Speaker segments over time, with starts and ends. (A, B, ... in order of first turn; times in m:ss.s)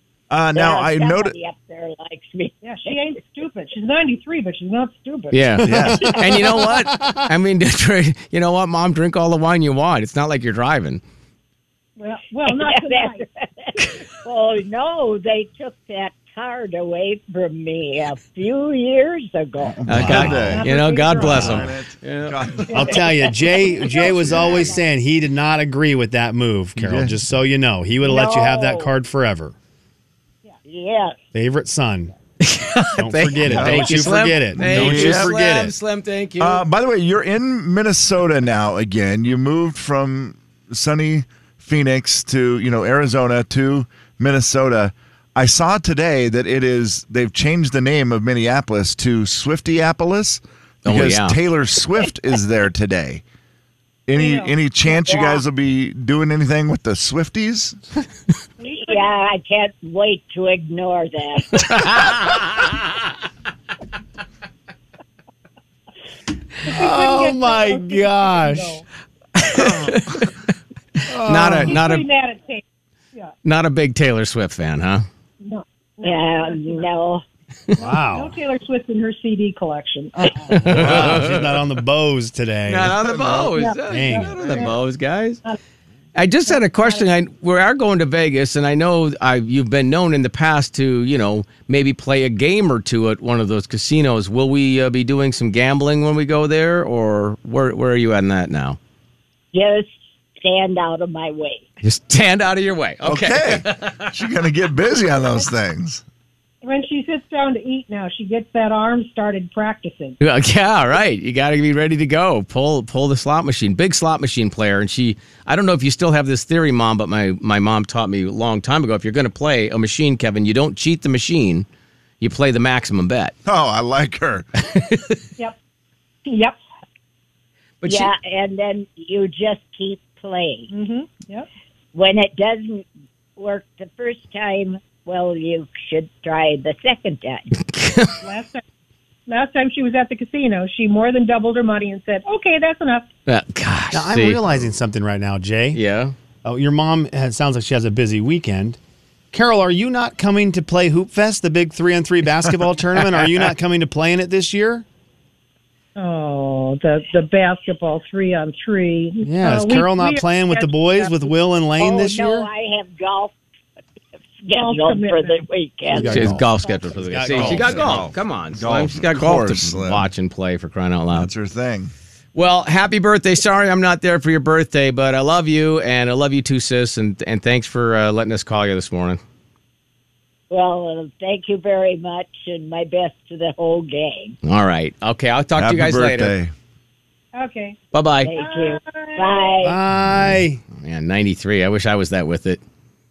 0:00.3-0:01.3 A
0:00.5-0:03.2 B
0:02.6-0:05.7 C
0:05.3-0:11.0 D
0:05.6-0:06.1 A
0:05.7-0:06.5 B
0:06.5-0:07.3 E
0:12.0-0:13.2 C
0:12.4-0:19.8 B
0:19.6-0:23.0 A
0:19.8-0:20.6 E
0:19.9-0:22.4 D
0:20.3-0:21.7 C
0:22.7-0:24.8 C
0:22.7-0:24.8 B
0:22.7-0:29.5 E
0:24.0-0:24.6 A
0:26.8-0:27.2 A
0:28.0-0:28.9 B
0:30.6-0:31.2 B
0:31.3-0:32.1 E
0:32.4-0:36.6 D
0:33.0-0:35.7 E
0:33.4-0:35.4 A
0:36.4-0:53.2 A
0:50.8-0:51.4 D
0:54.1-0:57.8 A
0:54.2-0:54.6 C
0:54.9-0:55.4 B
0:58.6-0:59.1 C
0:58.6-1:02.3 B
1:01.7-1:02.7 D
1:06.6-1:08.8 C
1:06.6-1:08.8 E
1:09.4-1:10.3 D
1:09.5-1:09.9 E
1:09.5-1:10.3 A
1:11.1-1:11.9 E
1:11.1-1:12.1 D
1:11.6-1:13.3 C
1:13.4-1:15.0 D
1:15.4-1:16.8 C
1:16.0-1:17.2 B
1:17.8-1:18.4 E
1:17.8-1:21.0 C
1:20.5-1:24.6 E
1:20.5-1:21.6 D
1:20.9-1:21.2 A
1:22.7-1:25.4 D
1:23.4-1:24.8 C
1:26.1-1:38.8 D
1:26.5-1:27.0 C
1:39.5-1:41.6 B
1:41.8-1:44.1 D
1:43.0-1:46.0 A
1:46.6-1:50.2 C
1:50.2-2:01.6 D
2:02.2-2:03.3 D
2:03.4-2:04.5 A
2:04.6-2:05.2 D
2:06.2-2:06.6 C
2:07.8-2:08.1 D
2:07.8-2:10.7 B
2:10.7-2:11.5 C
2:11.9-2:12.8 B
2:13.4-2:17.5 B
2:17.6-2:18.2 D
2:18.2-2:18.6 C
2:19.3-2:23.1 C
2:23.3-2:24.4 D
2:23.9-2:25.8 E
2:25.7-2:26.1 D
2:26.4-2:28.8 E
2:29.3-2:34.8 E
2:36.0-2:41.3 C
2:39.2-2:42.5 E
2:41.8-2:43.3 B
2:44.4-2:46.4 B
2:44.5-2:45.4 C
2:45.9-2:48.1 E
2:46.0-2:51.3 D
2:46.5-2:46.9 C
2:47.3-2:50.1 A
2:51.1-2:51.9 A
2:52.3-2:59.2 D
3:00.5-3:04.4 B
3:04.4-3:06.4 D
3:05.6-3:06.5 A
3:07.3-3:07.8 C
3:07.9-3:08.3 D
3:08.2-3:09.8 B
3:08.3-3:09.6 C
3:09.6-3:10.6 E
3:10.8-3:12.6 D